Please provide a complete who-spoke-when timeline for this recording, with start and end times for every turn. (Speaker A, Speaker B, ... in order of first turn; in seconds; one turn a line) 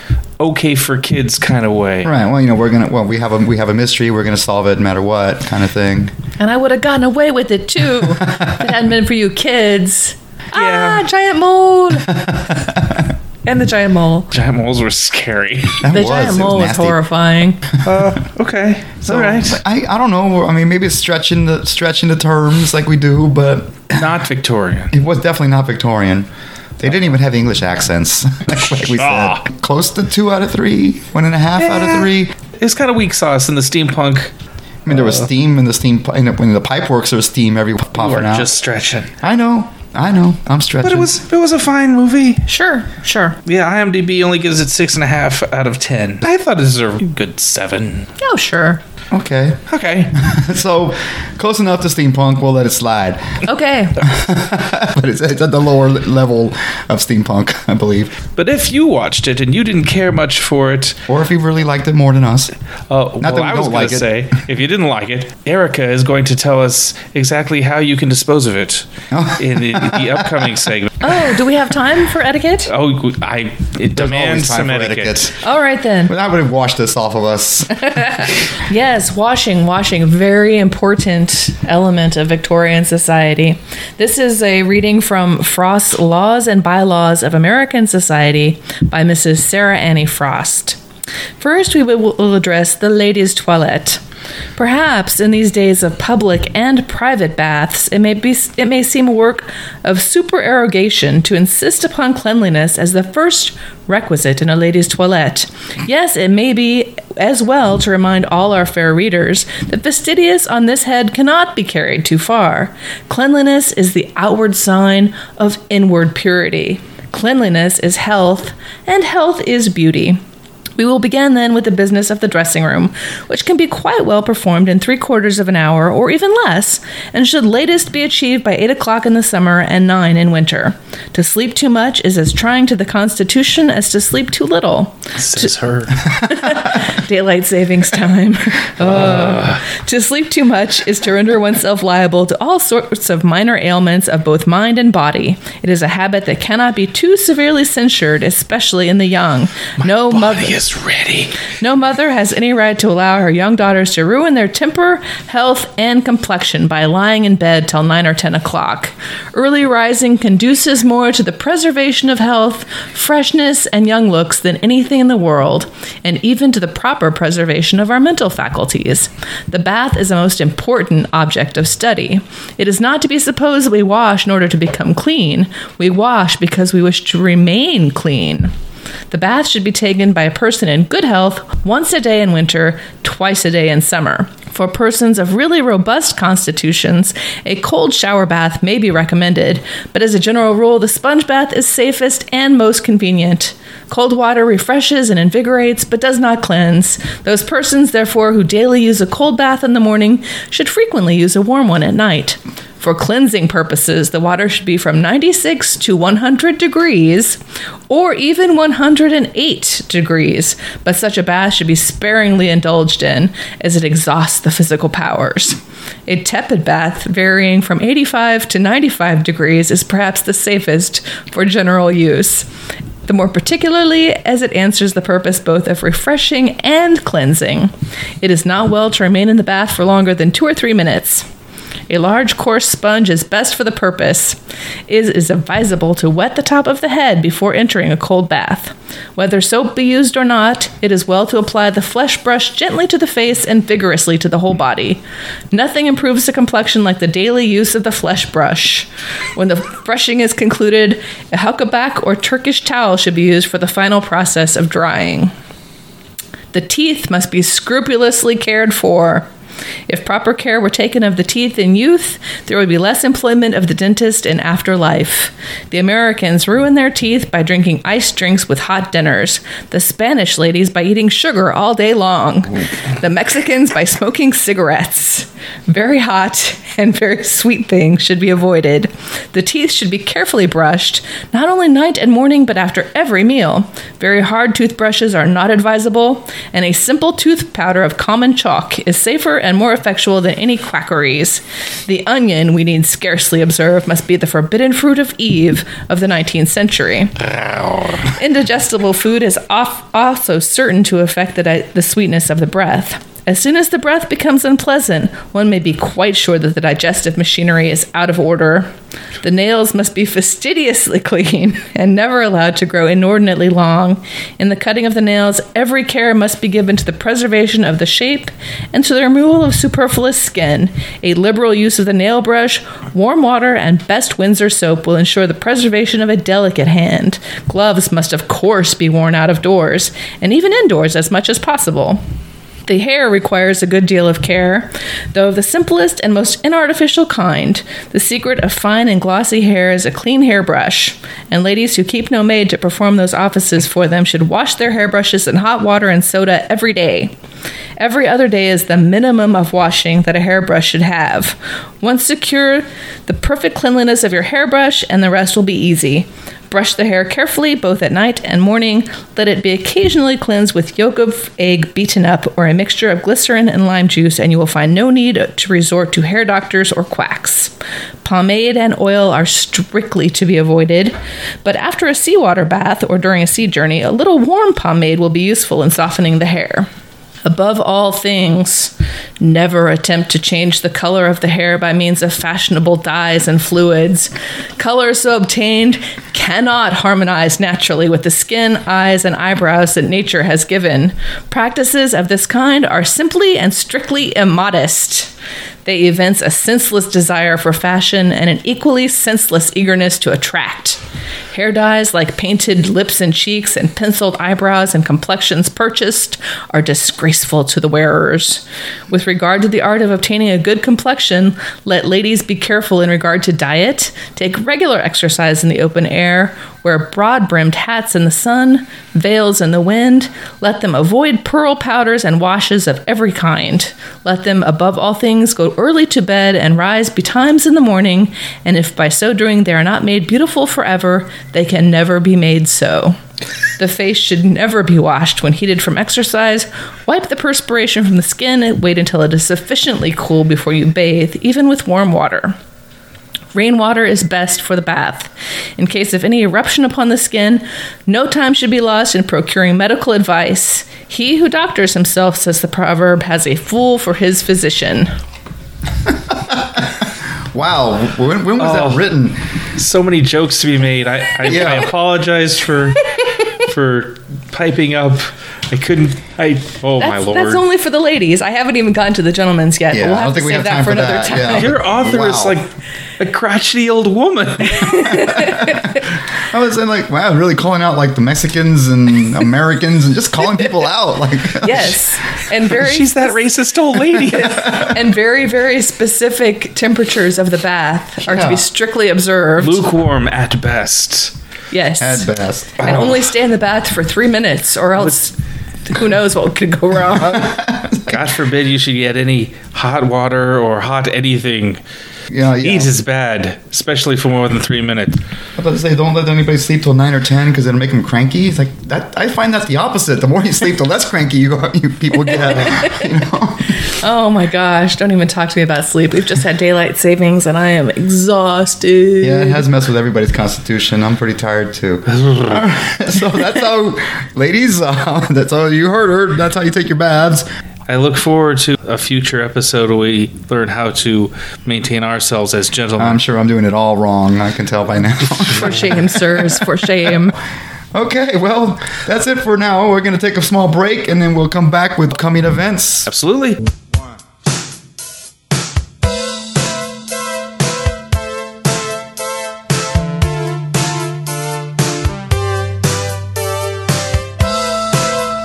Speaker A: 0.4-2.1
Speaker B: 2.0-6.1
Speaker C: 6.4-12.2
Speaker B: 8.3-8.5
Speaker A: 10.5-11.1
Speaker B: 12.2-13.1
Speaker C: 13.4-14.3
Speaker A: 14.3-15.8
Speaker B: 15.8-17.0
Speaker C: 15.9-17.6
Speaker A: 17.8-19.6
Speaker B: 19.0-24.1
Speaker A: 23.9-24.9
Speaker B: 24.9-32.3
Speaker A: 28.7-29.4
Speaker A: 31.6-34.3
Speaker B: 34.9-38.5
Speaker A: 38.0-39.1
Speaker B: 39.2-41.1
Speaker A: 40.8-42.4
Speaker C: 42.5-43.4
Speaker A: 43.5-48.1
Speaker C: 48.2-48.8
Speaker B: 49.1-49.6
Speaker A: 49.7-50.1
Speaker B: 50.1-53.4
Speaker C: 53.4-54.0
Speaker B: 54.0-58.1
Speaker A: 58.4-61.0
Speaker B: 61.1-62.5
Speaker A: 62.9-71.1
Speaker B: 63.2-64.1
Speaker B: 69.1-70.5
Speaker C: 71.0-72.7
Speaker A: 72.7-75.3
Speaker B: 73.9-75.3
Speaker C: 75.4-76.1
Speaker B: 76.1-77.9
Speaker C: 77.9-90.8
Speaker C: 91.4-94.0
Speaker C: 94.6-120.2
Speaker C: 120.8-150.6
Speaker A: 135.2-135.9
Speaker A: 138.9-139.6
Speaker A: 150.1-151.4
Speaker C: 151.6-178.5
Speaker C: 179.1-222.5
Speaker C: 223.1-231.2
Speaker C: 231.9-245.0
Speaker C: 245.5-255.3
Speaker C: 256.5-259.3
Speaker C: 259.9-297.1
Speaker A: 297.2-298.0
Speaker C: 298.1-308.7
Speaker C: 309.2-332.0
Speaker C: 332.7-347.1
Speaker C: 347.8-367.5
Speaker C: 368.0-376.7
Speaker C: 377.2-395.1
Speaker C: 395.6-400.8
Speaker C: 401.3-433.0
Speaker C: 433.6-442.4
Speaker C: 443.3-454.9
Speaker B: 455.9-459.2
Speaker A: 458.4-458.9
Speaker A: 459.5-467.4
Speaker B: 461.2-461.7
Speaker C: 466.8-471.5
Speaker B: 469.7-472.4
Speaker A: 471.3-475.0
Speaker C: 474.4-475.8
Speaker B: 474.9-481.8
Speaker C: 481.4-483.3
Speaker A: 482.5-484.6
Speaker C: 483.9-489.6
Speaker B: 484.2-484.7
Speaker B: 488.1-488.4
Speaker A: 489.4-491.1
Speaker C: 491.5-492.1
Speaker B: 491.8-493.0
Speaker C: 492.6-495.1
Speaker C: 495.7-497.3
Speaker B: 496.9-498.0
Speaker A: 497.9-501.6
Speaker B: 502.1-502.7
Speaker A: 502.4-505.0
Speaker B: 505.4-513.6
Speaker C: 512.1-512.9
Speaker C: 513.6-519.4
Speaker B: 519.0-527.2
Speaker A: 522.0-522.3
Speaker A: 527.7-533.0
Speaker B: 532.8-536.2
Speaker C: 535.3-537.1
Speaker B: 537.7-542.9
Speaker A: 542.9-543.4